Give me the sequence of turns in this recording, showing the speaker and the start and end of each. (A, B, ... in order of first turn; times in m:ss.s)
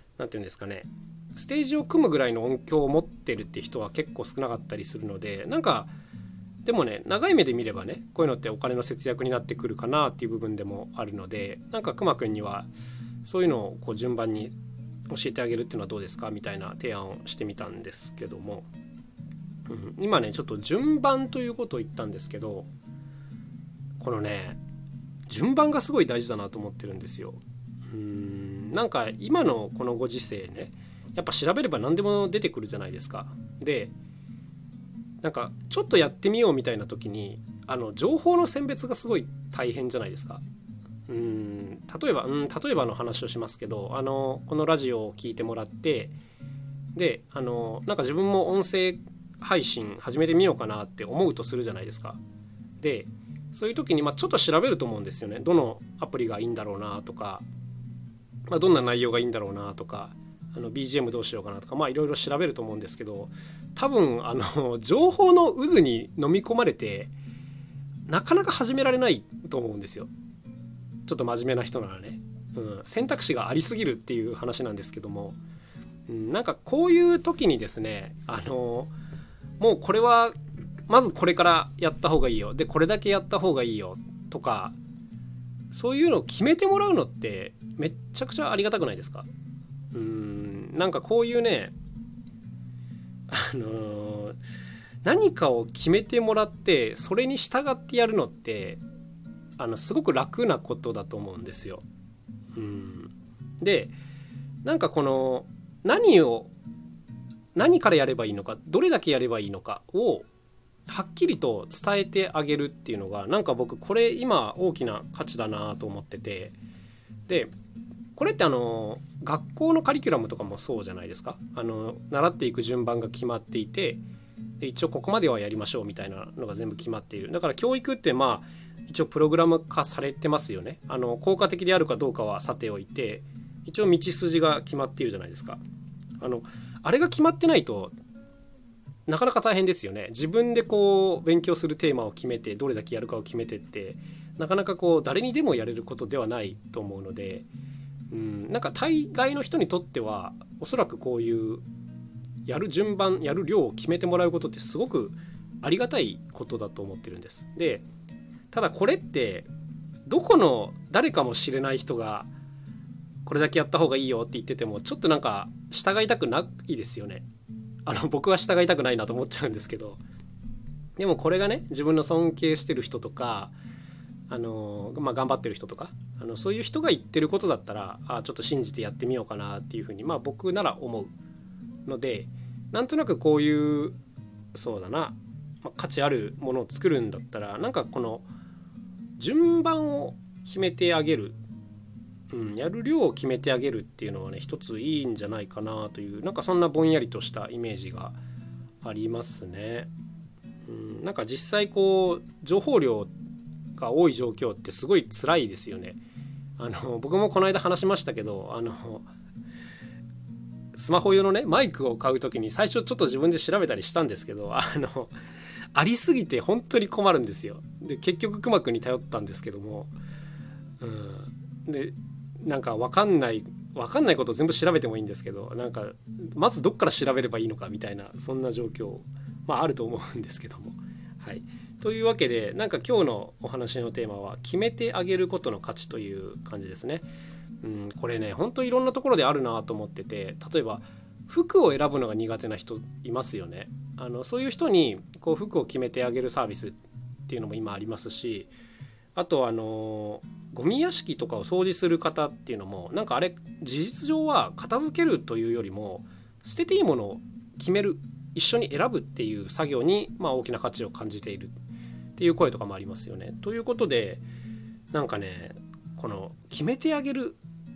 0:00.2-0:05.9 A
0:06.6-0:12.7 A
0:13.2-0:14.5 A
0:15.1-0:18.7 A
0:19.7-0:22.7 A
0:24.0-0:24.6 A
0:25.3-0:33.9 A
0:35.2-0:40.4 A
0:41.1-0:46.1 A
0:47.0-0:52.2 A
0:52.8-0:57.4 A
0:58.5-1:07.1 A
1:08.1-1:10.1 A
1:11.1-1:15.4 A
1:16.1-1:18.9 A
1:19.6-1:20.4 A
1:20.9-1:24.8 A
1:25.7-1:29.3 A
1:29.9-1:31.7 A
1:33.3-1:34.4 A
1:35.0-1:38.8 A
1:39.6-1:41.8 A
1:42.6-1:44.0 A
1:44.6-1:46.5 A
1:47.6-1:50.3 A
1:50.9-1:56.6 A
1:58.2-2:04.0 A
2:04.6-2:15.6 A
2:16.2-2:18.0 A
2:19.1-2:27.5 A
2:28.1-2:31.6 A
2:32.5-2:37.8 A
2:38.5-2:39.5 A
2:40.1-2:42.3 A
2:43.2-2:47.3 A
2:47.9-2:50.0 A
2:51.0-2:53.5 A
2:54.3-3:01.1 A
3:01.9-3:04.0 A
3:04.5-3:08.3 A
3:09.2-3:11.4 A
3:12.3-3:18.2 A
3:18.8-3:19.9 A
3:20.7-3:23.1 A
3:23.8-3:26.0 A
3:26.6-3:29.1 A
3:30.7-3:35.2 A
3:35.7-3:40.0 A
3:40.8-3:57.0 A
3:57.6-4:08.5 A
4:09.2-4:21.6 A
4:22.2-4:24.2 A
4:24.9-4:27.4 A